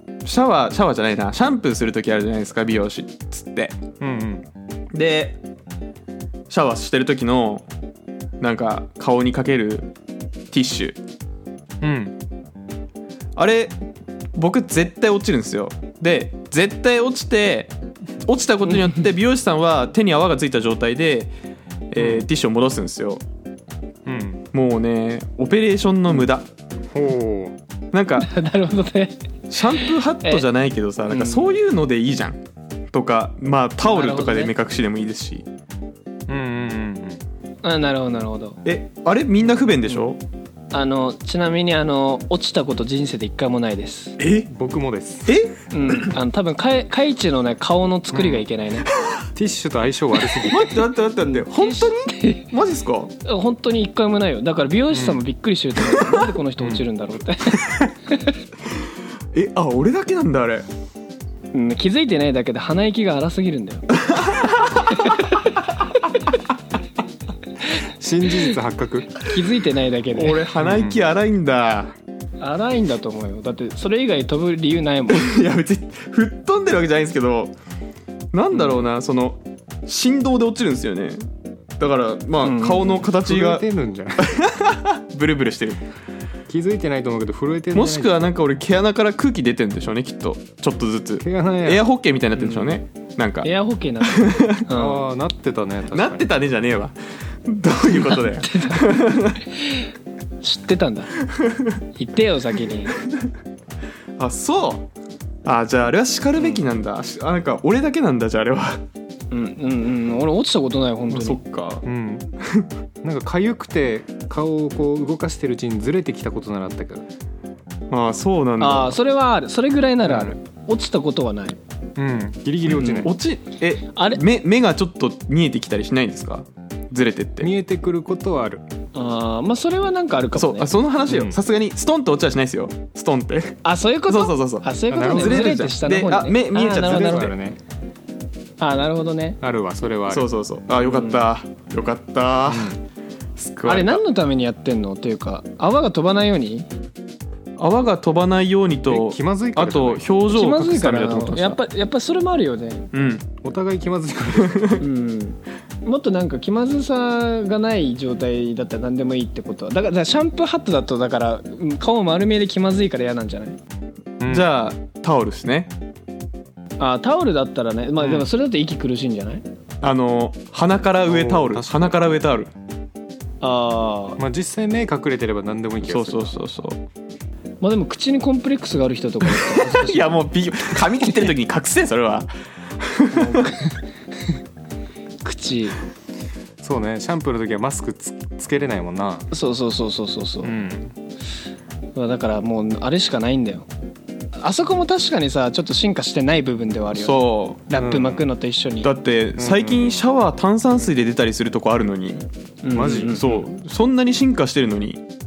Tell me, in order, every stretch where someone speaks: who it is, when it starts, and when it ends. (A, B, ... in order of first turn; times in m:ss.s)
0:00.2-0:03.8 A
0:04.0-0:04.4 B
0:04.9-0:05.4 A
0:06.5-0:07.6 A
0:08.4-0:09.9 A
0:10.5-0:11.0 A
0:11.8-0:12.2 B
0:13.4-0:13.8 A
0:14.4-0:17.7 A
0:18.2-0:21.3 A
0:21.9-0:23.2 A
0:22.0-0:22.3 B
0:24.1-0:24.4 B
0:24.5-0:26.5 A
0:26.9-0:27.6 B
0:27.9-0:28.3 A
0:28.2-0:29.2 C
0:29.5-0:32.4 A
0:29.7-0:30.4 C
0:31.1-0:31.5 C
0:32.9-0:35.4 A
0:33.8-0:34.5 C
0:36.3-0:37.2 B
0:37.6-0:38.6 C
0:38.6-0:40.2 A
0:40.7-0:44.2 C
0:44.2-0:44.5 A
0:44.5-0:45.4 B
0:45.3-0:46.1 A
0:45.7-0:48.9 C
0:48.1-0:48.5 B
0:49.4-0:50.8 B
0:50.4-0:53.1 A
0:51.2-0:52.5 C
0:53.2-0:58.4 C
0:54.9-0:55.2 B
0:56.6-0:56.8 B
0:59.3-1:00.7 A
1:01.5-1:03.9 C
1:04.1-1:04.8 A
1:04.8-1:05.5 C
1:07.8-1:09.2 B
1:09.2-1:10.4 C
1:10.1-1:11.9 A
1:10.6-1:11.0 B
1:12.4-1:15.3 C
1:15.1-1:17.5 A
1:18.3-1:21.3 A
1:18.5-1:18.8 C
1:21.8-1:23.6 A
1:22.4-1:23.0 C
1:23.2-1:24.3 B
1:24.2-1:25.8 A
1:26.5-1:28.3 B
1:27.7-1:33.5 A
1:31.2-1:31.8 B
1:32.4-1:32.8 C
1:33.4-1:35.0 C
1:34.0-1:34.6 A
1:34.7-1:36.3 B
1:35.9-1:39.4 A
1:38.1-1:39.9 C
1:40.4-1:41.2 C
1:41.4-1:41.7 A
1:42.0-1:43.0 C
1:44.2-1:44.9 A
1:45.4-1:48.8 A
1:46.4-1:46.6 C
1:49.3-1:51.4 C
1:51.1-1:51.9 A
1:51.8-1:52.3 B
1:52.4-1:52.7 A
1:53.0-1:57.1 B
1:57.9-1:59.0 A
1:58.6-2:01.6 C
2:00.0-2:00.3 B
2:02.0-2:03.1 B
2:02.7-2:07.5 A
2:02.8-2:03.1 C
2:03.9-2:04.2 C
2:07.4-2:08.6 B
2:09.0-2:10.7 C
2:10.4-2:17.3 A
2:11.1-2:11.4 B
2:13.6-2:17.3 C
2:14.9-2:15.6 B
2:16.8-2:17.6 B
2:18.6-2:19.4 C
2:19.4-2:20.3 B
2:20.1-2:22.8 A
2:20.8-2:21.2 C
2:22.5-2:22.8 B
2:23.4-2:24.0 A
2:23.6-2:26.7 C
2:27.6-2:31.6 A
2:28.9-2:30.2 B
2:30.3-2:32.9 C
2:32.9-2:33.3 A
2:33.4-2:34.8 B
2:34.4-2:34.8 A
2:34.8-2:43.6 C
2:44.2-2:44.5 B
2:44.3-2:45.7 A
2:46.8-2:49.4 C
2:49.8-2:52.5 A
2:51.1-2:52.2 B
2:53.4-2:54.2 C
2:54.2-2:56.4 B
2:55.8-2:56.8 A
2:57.6-3:00.1 C
2:59.4-3:02.3 A
3:02.8-3:03.5 A
3:03.1-3:03.8 C
3:05.2-3:05.8 C
3:06.6-3:09.3 B
3:09.3-3:10.5 C
3:10.4-3:11.0 B
3:12.0-3:13.7 C
3:14.4-3:18.9 C
3:17.0-3:17.6 A
3:17.8-3:18.2 B
3:18.8-3:22.2 A
3:19.4-3:20.1 B
3:22.6-3:23.4 C
3:22.7-3:23.3 B
3:23.0-3:25.0 A